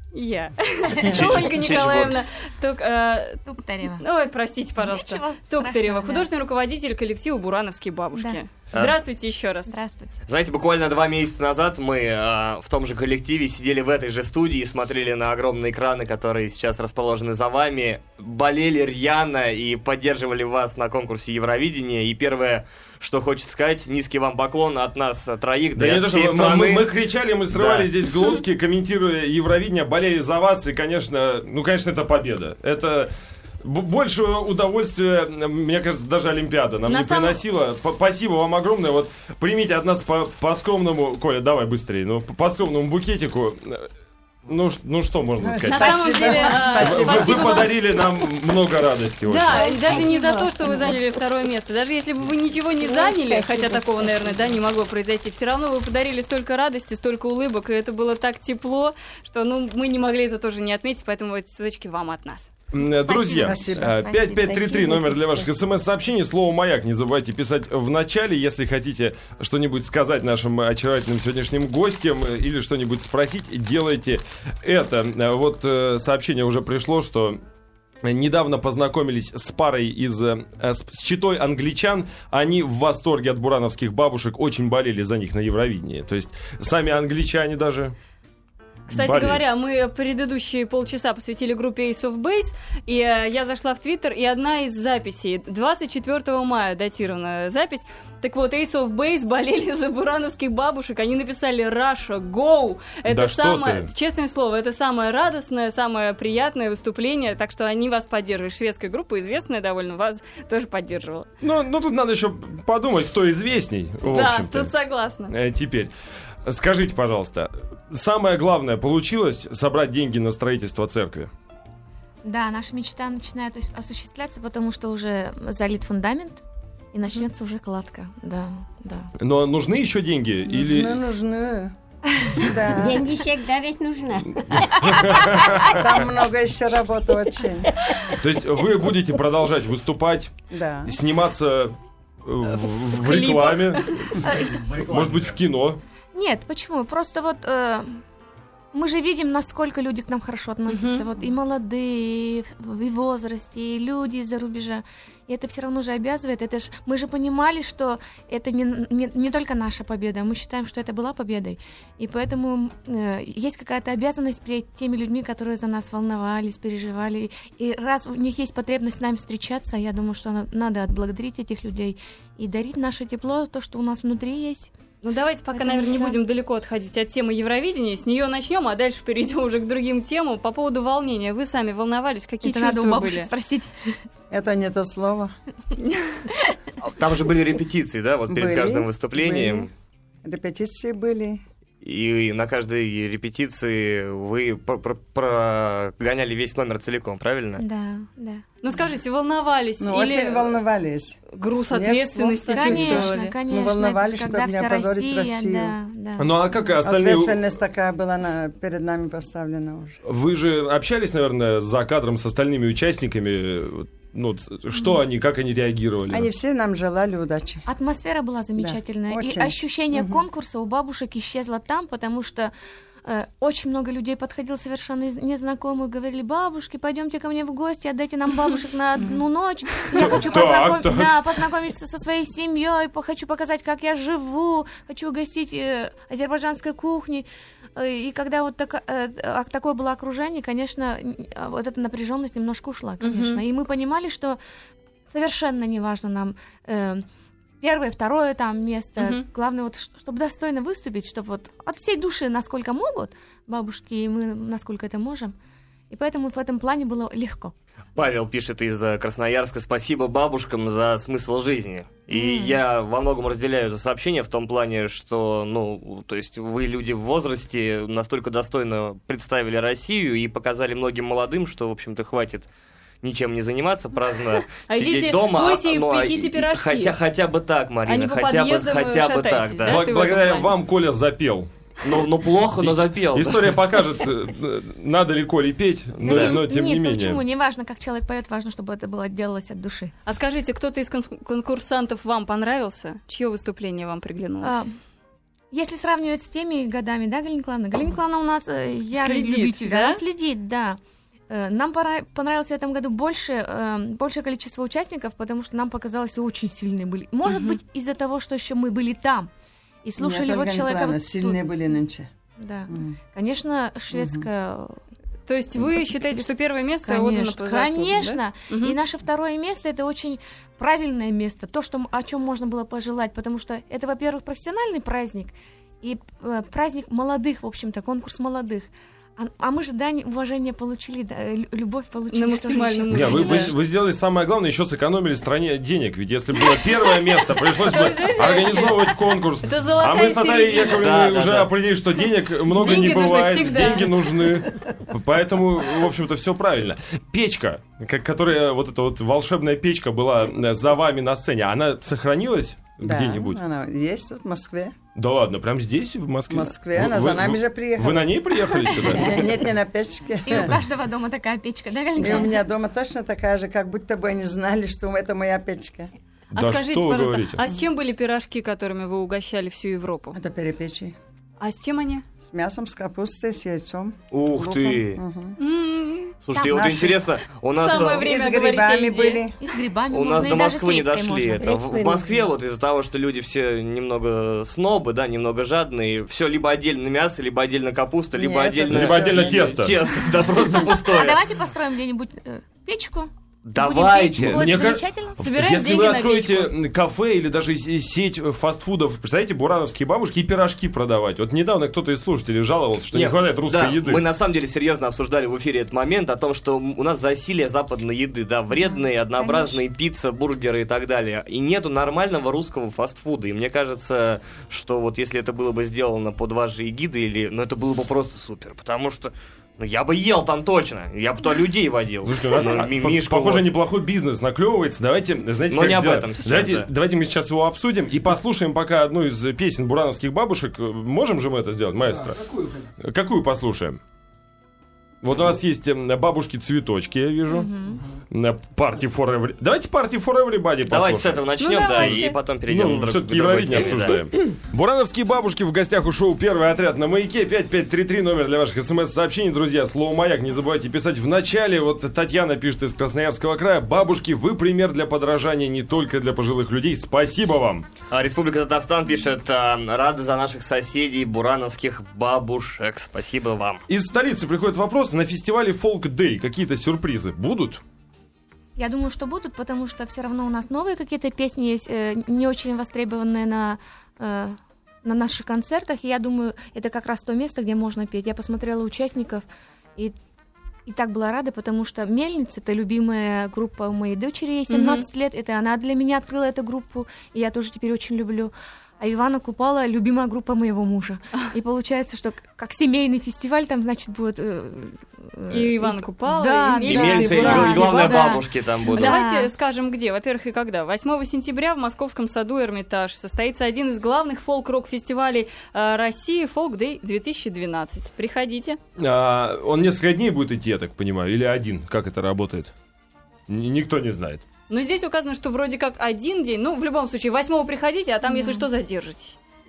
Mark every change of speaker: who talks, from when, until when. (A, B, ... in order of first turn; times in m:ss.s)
0:00.1-0:03.4 A
0:01.0-0:02.2 B
0:03.4-0:04.0 C
0:03.9-0:09.7 A
0:04.8-0:06.3 C
0:09.7-0:10.2 C
0:10.2-0:26.9 B
0:25.7-0:43.9 D
0:27.5-0:27.9 B
0:36.9-0:37.4 A
0:44.4-0:46.2 D
0:45.4-0:47.7 E
0:45.6-0:47.7 A
0:46.7-0:49.7 D
0:49.2-1:02.5 A
0:49.6-0:51.0 F
0:52.8-0:54.6 F
1:02.7-1:17.4 D
1:02.8-1:05.6 C
1:03.4-1:03.9 E
1:18.0-1:28.0 D
1:28.9-1:51.3 A
1:28.9-1:29.4 D
1:43.0-1:43.9 D
1:51.4-1:54.7 D
1:54.1-1:55.3 A
1:55.3-1:55.9 D
1:56.4-2:01.3 D
2:02.2-2:06.4 C
2:06.9-2:09.1 C
2:09.2-2:11.0 D
2:10.5-2:11.7 E
2:12.3-2:13.1 E
2:12.7-2:15.4 F
2:14.4-2:16.1 D
2:15.6-2:17.7 E
2:18.1-2:20.3 D
2:20.5-2:20.9 E
2:20.8-2:25.8 D
2:23.0-2:24.0 A
2:24.2-2:24.7 C
2:24.6-2:25.2 B
2:26.1-2:28.0 C
2:28.7-2:54.7 C
2:30.7-2:31.1 A
2:55.0-3:03.3 A
2:55.5-2:56.2 C
3:02.4-3:04.0 C
3:04.3-3:05.3 E
3:05.8-3:06.2 A
3:06.8-3:09.7 B
3:08.3-3:09.7 E
3:10.2-3:11.4 E
3:11.8-3:17.6 B
3:17.6-3:18.4 C
3:18.6-3:20.6 A
3:19.8-3:21.2 E
3:21.3-3:23.4 A
3:21.7-3:25.7 E
3:22.5-3:26.7 C
3:26.2-3:27.5 D
3:26.8-3:30.0 E
3:30.0-3:36.3 D
3:36.1-3:37.6 E
3:37.7-3:42.5 C
3:38.6-3:40.2 E
3:43.0-4:04.4 C
3:49.9-3:51.3 D
4:03.0-4:03.4 A
4:05.1-4:07.1 C
4:07.6-4:15.3 C
4:09.0-4:09.2 A
4:15.9-4:17.5 C
4:18.0-4:32.5 B
4:22.1-4:22.6 C
4:33.0-4:39.9 B
4:34.5-4:37.0 A
4:37.9-4:40.5 A
4:39.6-4:41.5 D
4:41.8-4:43.6 B
4:42.6-4:47.2 D
4:46.0-4:46.4 B
4:46.0-4:49.9 C
4:50.1-4:54.6 A
4:54.4-4:54.7 C
4:55.5-5:00.8 C
4:58.9-5:00.0 A
5:01.3-5:09.3 C
5:07.2-5:07.6 A
5:09.8-5:11.4 C
5:10.0-5:12.1 E
5:12.4-5:14.8 C
5:12.7-5:12.9 E
5:13.9-5:14.3 E
5:15.3-5:18.8 A
5:15.6-5:16.3 C
5:16.8-5:33.5 C
5:32.1-5:33.5 A
5:32.9-5:53.4 D
5:37.4-5:40.9 A
5:40.7-5:41.6 B
5:42.5-5:44.3 A
5:52.8-5:54.8 E
5:54.9-5:59.4 D
5:56.3-5:58.2 E
5:58.7-6:00.5 E
6:00.2-6:02.4 C
6:02.0-6:05.9 E
6:06.3-6:10.2 A
6:06.4-6:07.4 D
6:10.1-6:11.0 E
6:11.4-6:12.0 A
6:12.2-6:15.4 E
6:14.1-6:15.0 B
6:15.4-6:16.2 A
6:16.2-6:18.1 B
6:16.3-6:17.1 E
6:17.6-6:19.3 A
6:17.6-6:19.4 E
6:19.4-6:21.5 C
6:19.9-6:31.2 B
6:21.4-6:22.3 F
6:28.2-6:29.7 E
6:28.7-6:29.8 D
6:30.6-6:35.2 C
6:33.5-6:34.6 B
6:34.3-6:44.0 D
6:35.2-6:36.5 A
6:42.9-7:03.5 B
6:48.5-6:49.6 C
7:02.0-7:13.8 D
7:05.5-7:06.7 B
7:15.0-7:17.5 D
7:17.3-7:17.8 C
7:18.1-7:37.7 D
7:20.7-7:24.0 B
7:21.4-7:22.2 A
7:37.9-7:43.6 B
7:43.7-7:47.6 D
7:48.6-7:59.2 C
8:00.7-8:19.3 C
8:04.5-8:04.8 A
8:15.3-8:28.6 A
8:16.6-8:19.0 B
8:28.8-8:32.5 D
8:33.3-8:34.2 D
8:34.5-8:39.2 A
8:38.1-8:38.4 C